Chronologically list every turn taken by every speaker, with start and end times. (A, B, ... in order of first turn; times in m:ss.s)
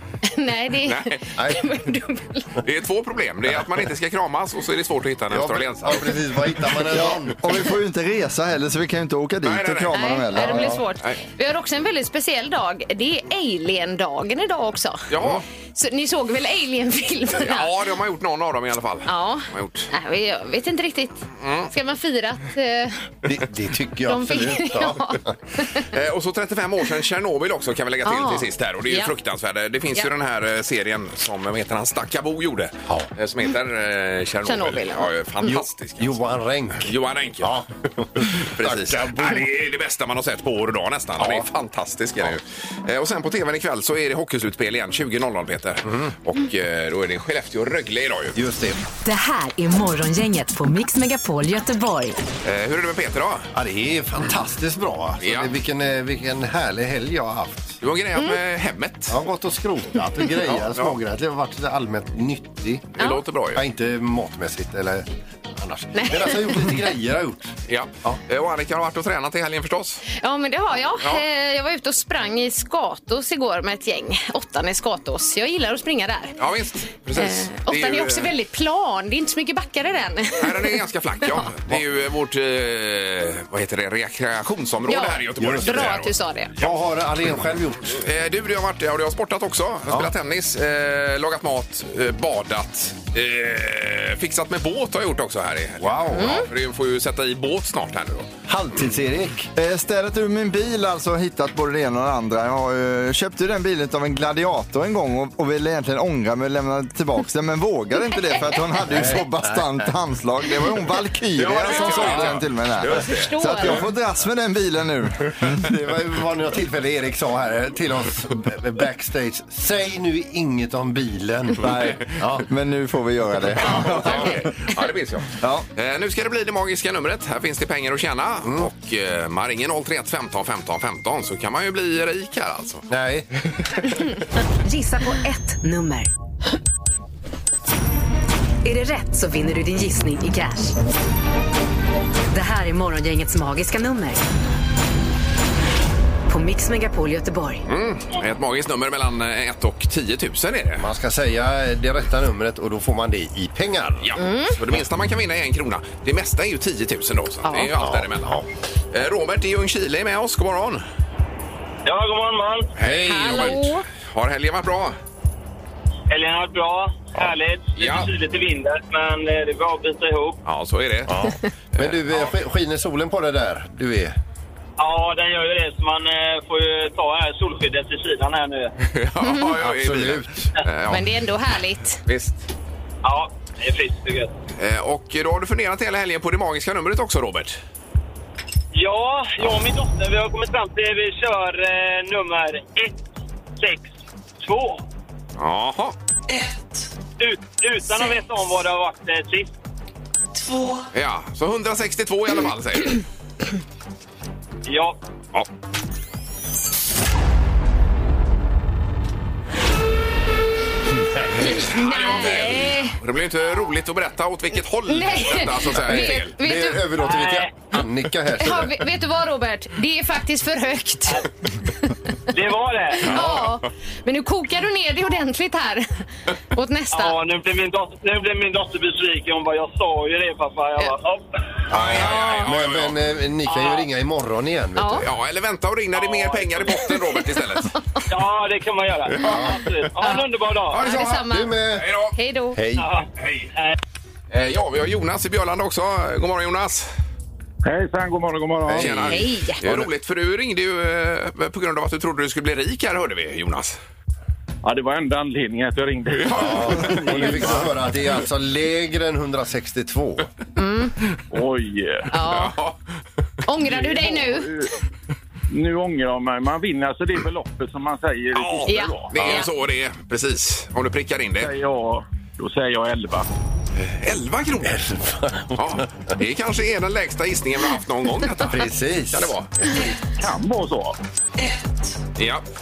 0:00.2-0:02.6 A
0:00.9-0:01.3 B
0:01.4-0:01.7 C
0:02.6-0:06.6 B
0:05.3-0:07.5 C
0:06.9-0:10.8 D
0:09.4-0:10.0 B
0:09.9-0:15.1 A
0:10.4-0:10.8 C
0:15.1-0:15.4 B
0:15.7-0:17.7 A
0:17.4-0:19.9 B
0:19.1-0:23.0 A
0:21.4-0:21.7 B
0:23.2-0:25.4 C
0:24.1-0:25.8 A
0:25.8-0:36.2 B
0:28.1-0:29.1 A
0:34.4-0:35.1 A
0:35.4-0:39.5 C
0:36.8-0:37.6 B
0:38.2-0:48.4 B
0:41.2-0:41.5 C
0:45.9-0:46.1 C
0:48.4-0:48.8 C
0:49.0-0:52.2 E
0:52.4-0:53.5 B
0:53.5-0:57.8 C
0:55.2-0:55.5 B
0:57.8-0:59.2 B
0:59.1-1:03.0 C
1:00.4-1:01.0 B
1:03.0-1:03.6 B
1:03.6-1:08.2 C
1:06.0-1:06.7 A
1:07.7-1:10.0 B
1:10.1-1:16.4 A
1:16.4-1:18.3 B
1:17.2-1:20.8 A
1:20.4-1:26.7 B
1:24.9-1:26.5 A
1:25.4-1:25.9 C
1:26.6-1:28.0 C
1:27.9-1:38.3 B
1:35.8-1:36.4 C
1:36.2-1:36.5 A
1:38.5-1:39.5 C
1:39.6-1:55.6 D
1:48.9-1:49.9 C
1:51.4-1:53.7 B
1:52.9-1:53.8 A
1:55.4-2:02.5 C
2:01.6-2:04.5 D
2:03.6-2:12.9 B
2:05.4-2:05.7 D
2:08.4-2:08.7 C
2:12.9-2:14.0 C
2:14.6-2:16.1 E
2:18.6-2:20.8 E
2:22.3-2:24.2 E
2:26.3-2:27.6 E
2:27.7-2:30.9 B
2:30.8-2:34.1 C
2:34.0-2:38.4 B
2:34.2-2:34.6 A
2:37.4-2:37.7 A
2:37.8-2:38.4 C
2:38.9-2:40.8 B
2:41.8-2:42.7 F
2:42.8-2:45.0 B
2:42.8-2:43.3 C
2:42.9-2:43.8 A
2:46.1-2:50.4 F
2:47.8-2:48.1 B
2:50.4-2:51.2 B
2:51.1-2:54.2 C
2:51.8-2:52.3 B
2:54.8-2:58.7 F
2:58.8-3:01.0 B
2:59.2-2:59.5 A
2:59.6-3:00.5 C
3:00.9-3:02.0 A
3:02.1-3:02.4 B
3:03.0-3:04.3 F
3:04.6-3:07.6 B
3:08.7-3:13.0 F
3:13.6-3:14.8 F
3:15.4-3:16.0 B
3:17.2-3:19.5 F
3:20.9-3:23.0 B
3:24.6-3:25.0 F
3:31.3-3:36.4 B
3:31.4-3:33.0 A
3:34.9-3:36.9 A
3:35.7-3:38.8 C
3:37.0-3:37.6 F
3:38.4-3:41.9 A
3:42.3-3:43.1 F
3:43.0-3:47.2 A
3:43.1-3:43.6 B
3:46.9-3:51.6 F
3:51.7-3:55.1 C
3:51.7-3:53.0 B
3:53.5-3:53.8 F
3:54.8-3:55.0 A
3:55.0-3:57.8 B
3:56.0-3:56.6 F
3:57.0-3:57.4 A
3:58.1-4:00.8 F
3:59.2-3:59.6 C
4:00.0-4:01.6 A
4:00.7-4:02.2 B
4:01.1-4:01.9 C
4:02.2-4:02.6 A
4:02.6-4:02.9 C
4:02.8-4:03.8 F
4:04.3-4:06.9 B
4:07.6-4:09.2 G
4:08.7-4:13.8 B
4:08.7-4:09.0 C
4:09.1-4:09.6 A
4:14.6-4:17.7 G
4:16.2-4:17.6 B
4:16.4-4:20.3 C
4:20.6-4:21.0 A
4:21.3-4:22.1 G
4:22.1-4:22.6 A
4:22.3-4:22.8 B
4:23.5-4:24.7 A
4:23.6-4:24.7 G
4:25.5-4:29.4 G
4:28.3-4:31.5 B
4:28.7-4:29.5 A
4:31.4-4:33.3 G
4:33.8-4:34.8 B
4:34.6-4:36.1 C
4:35.6-4:39.5 B
4:38.4-4:39.9 C
4:40.2-4:41.0 G
4:42.2-4:42.4 B